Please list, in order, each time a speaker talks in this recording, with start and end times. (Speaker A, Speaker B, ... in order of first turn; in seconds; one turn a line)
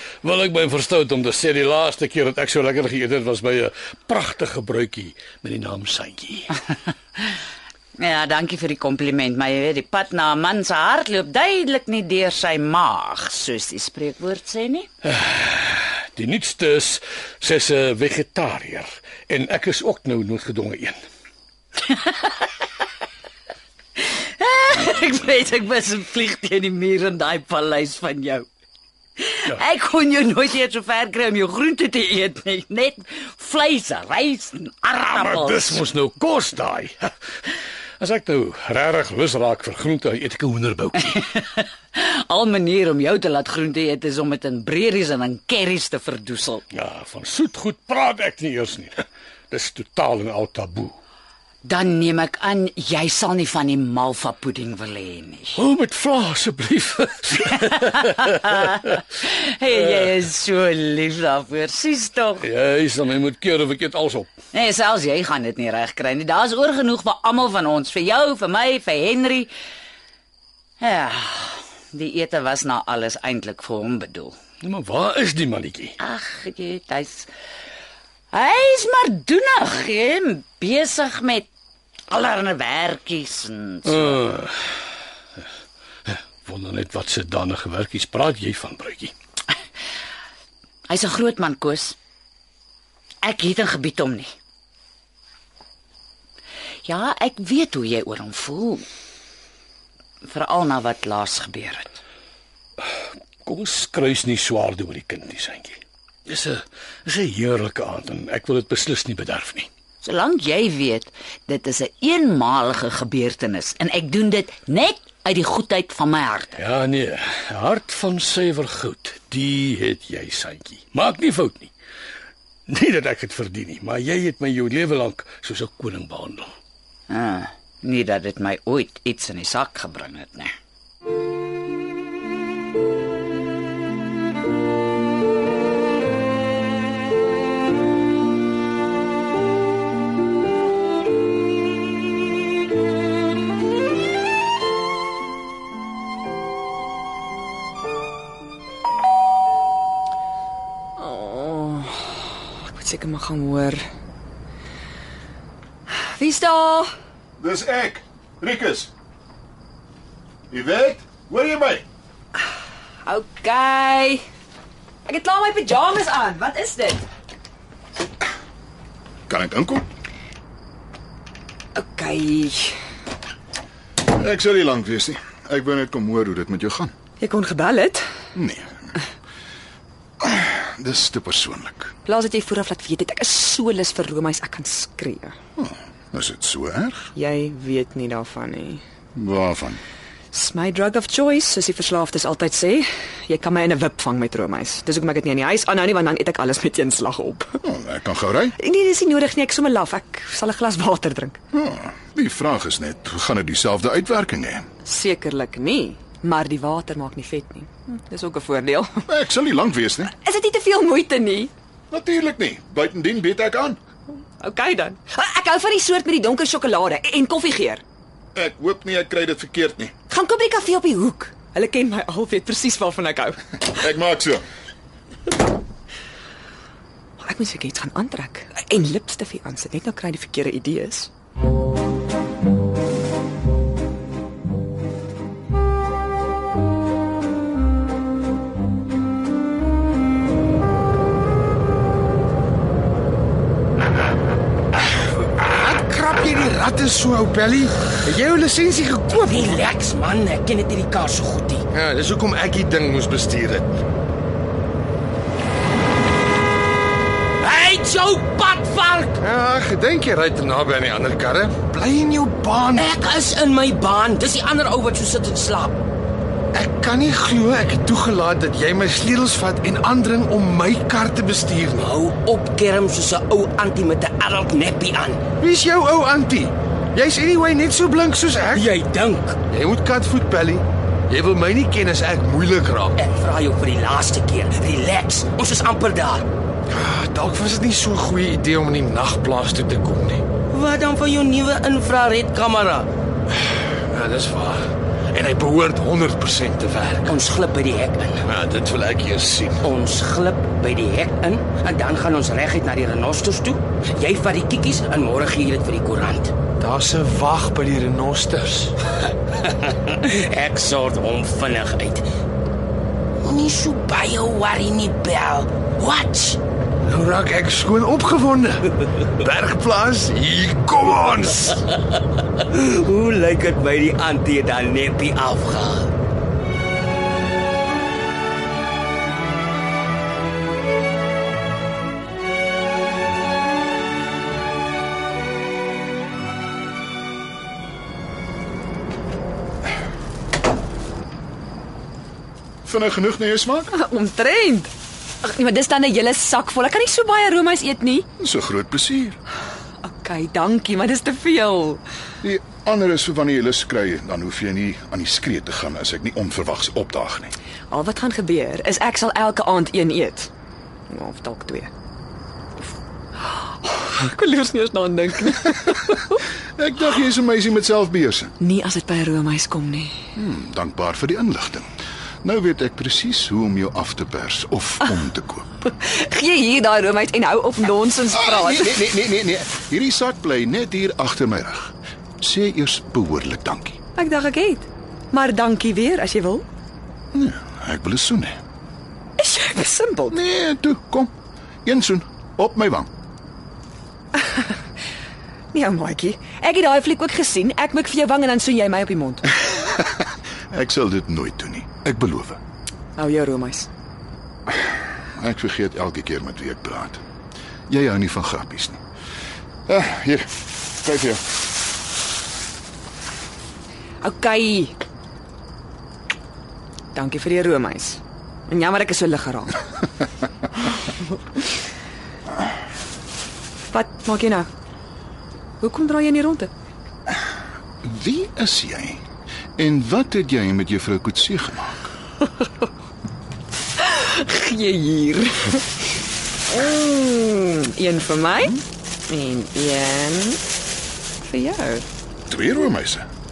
Speaker A: 0.2-6.5
Speaker B: 6.8-7.3
Speaker B: 8.0-14.9
Speaker A: 15.1-21.0
Speaker B: 21.8-22.8
Speaker B: 24.0-28.5
Speaker B: 29.2-35.9
Speaker A: 35.2-37.1
Speaker A: 38.0-41.1
Speaker B: 41.1-46.6
Speaker A: 46.7-51.0
Speaker B: 51.6-55.6
Speaker A: 55.6-57.4
Speaker B: 57.6-62.5
Speaker A: 62.4-64.4
Speaker B: 64.5-69.5
Speaker B: 70.8-74.4
Speaker A: 74.6-75.9
Speaker B: 76.0-77.3
Speaker B: 78.3-81.5
Speaker B: 82.1-84.2
Speaker A: 83.9-84.7
Speaker A: 86.1-89.1
Speaker B: 90.9-92.0
Speaker B: 93.2-94.3
Speaker B: 96.8-98.9
Speaker B: 100.2-101.9
Speaker A: 103.4-109.7
Speaker B: 110.0-116.5
Speaker A: 116.6-121.7
Speaker A: 122.7-126.5
Speaker B: 127.1-130.6
Speaker C: 151.0-153.8
Speaker C: 155.9-156.9
Speaker D: 157.4-158.9
Speaker D: 160.5-161.8
Speaker C: 163.1-164.2
Speaker C: 165.1-167.0
Speaker D: 169.3-169.9
Speaker C: 171.8-172.8
Speaker D: 174.0-176.9
Speaker C: 177.2-178.1
Speaker D: 178.3-178.8
Speaker D: 180.2-181.9
Speaker C: 182.1-185.3
Speaker D: 185.6-187.1
Speaker C: 187.2-188.8
Speaker D: 189.2-189.8
Speaker C: 190.3-197.6
Speaker D: 197.6-198.5
Speaker C: 198.6-201.4
Speaker D: 201.5-204.7
Speaker C: 204.8-209.1
Speaker D: 209.1-210.1
Speaker C: 210.1-211.5
Speaker D: 211.9-213.8
Speaker C: 214.4-217.8
Speaker D: 218.3-219.9
Speaker C: 220.1-223.4
Speaker D: 223.6-224.4
Speaker C: 227.2-231.1
Speaker E: 245.0-249.5
Speaker F: 249.2-251.7
Speaker E: 251.7-253.8
Speaker F: 257.4-259.2
Speaker E: 259.2-262.8
Speaker F: 262.8-265.8
Speaker E: 266.5-271.9
Speaker F: 271.8-275.2
Speaker E: 275.4-278.6
Speaker F: 278.5-279.4
Speaker E: 279.5-283.0
Speaker F: 283.0-286.3
Speaker E: 286.7-290.2
Speaker F: 290.5-292.9
Speaker E: 293.4-297.1
Speaker F: 297.1-298.2
Speaker E: 298.3-299.6
Speaker F: 299.6-306.3
Speaker E: 306.6-308.7
Speaker F: 309.4-312.1
Speaker F: 313.2-316.4
Speaker E: 316.9-318.7
Speaker E: 319.2-321.6
Speaker F: 322.4-325.9
Speaker D: 342.6-343.7
Speaker C: 343.7-344.7
Speaker C: 345.2-348.1
Speaker D: 348.2-349.2
Speaker C: 349.8-351.8
Speaker D: 352.2-357.3
Speaker C: 357.7-360.3
Speaker C: 360.9-361.7
Speaker C: 363.3-366.2
Speaker D: 366.6-368.3
Speaker C: 368.4-370.0
Speaker D: 370.1-371.7
Speaker D: 372.2-375.4
Speaker C: 375.6-378.8
Speaker D: 378.1-383.8
Speaker C: 384.0-386.5
Speaker D: 387.1-388.4
Speaker C: 389.2-390.2
Speaker D: 390.1-391.1
Speaker D: 391.6-392.9
Speaker C: 395.5-399.4
Speaker D: 400.5-402.4
Speaker C: 403.0-403.7
Speaker D: 405.2-407.0
Speaker D: 407.7-408.8
Speaker D: 409.7-411.2
Speaker C: 414.0-414.8
Speaker C: 416.9-419.6
Speaker C: 423.7-424.5
Speaker C: 425.6-426.5
Speaker D: 427.8-429.0
Speaker D: 429.6-431.9
Speaker C: 433.8-435.7
Speaker C: 436.5-440.4
Speaker C: 441.2-441.9
Speaker D: 442.3-443.1